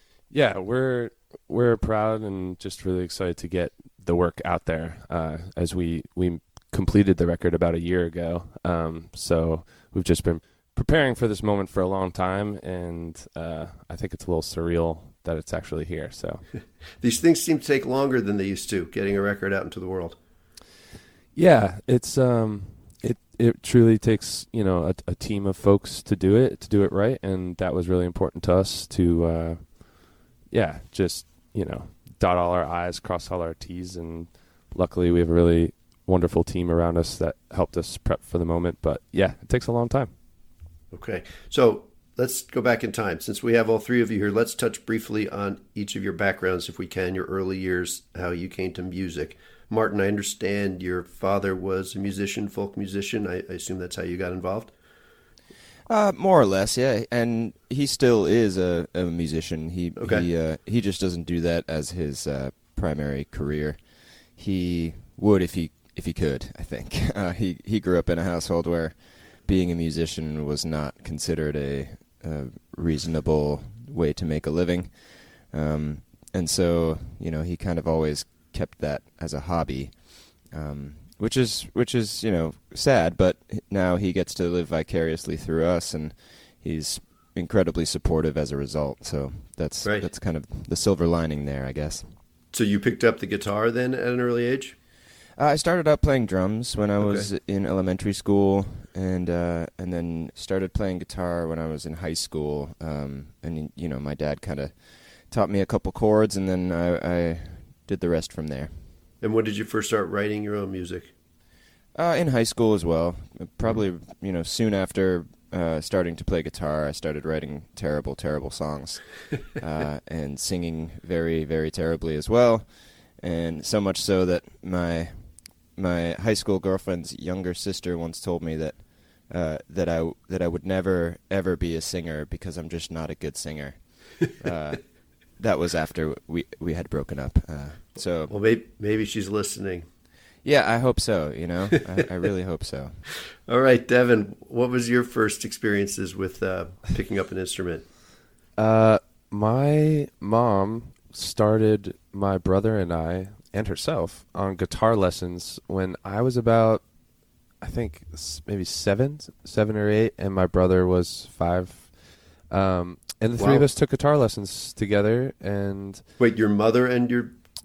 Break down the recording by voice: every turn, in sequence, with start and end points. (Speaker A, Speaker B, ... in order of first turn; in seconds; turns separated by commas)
Speaker A: 0.3-16.4, Speaker B: 17.0-20.2, Speaker A: 21.4-40.1, Speaker B: 40.9-54.7, Speaker C: 55.9-92.1, Speaker B: 60.0-60.2, Speaker B: 92.5-94.8, Speaker C: 95.4-108.8, Speaker B: 97.0-97.3, Speaker B: 109.2-111.1, Speaker C: 112.0-138.3, Speaker B: 138.3-139.9, Speaker C: 140.4-143.1, Speaker B: 143.5-147.9, Speaker A: 148.6-156.9, Speaker A: 157.5-166.1, Speaker B: 163.4-163.7, Speaker B: 166.2-167.4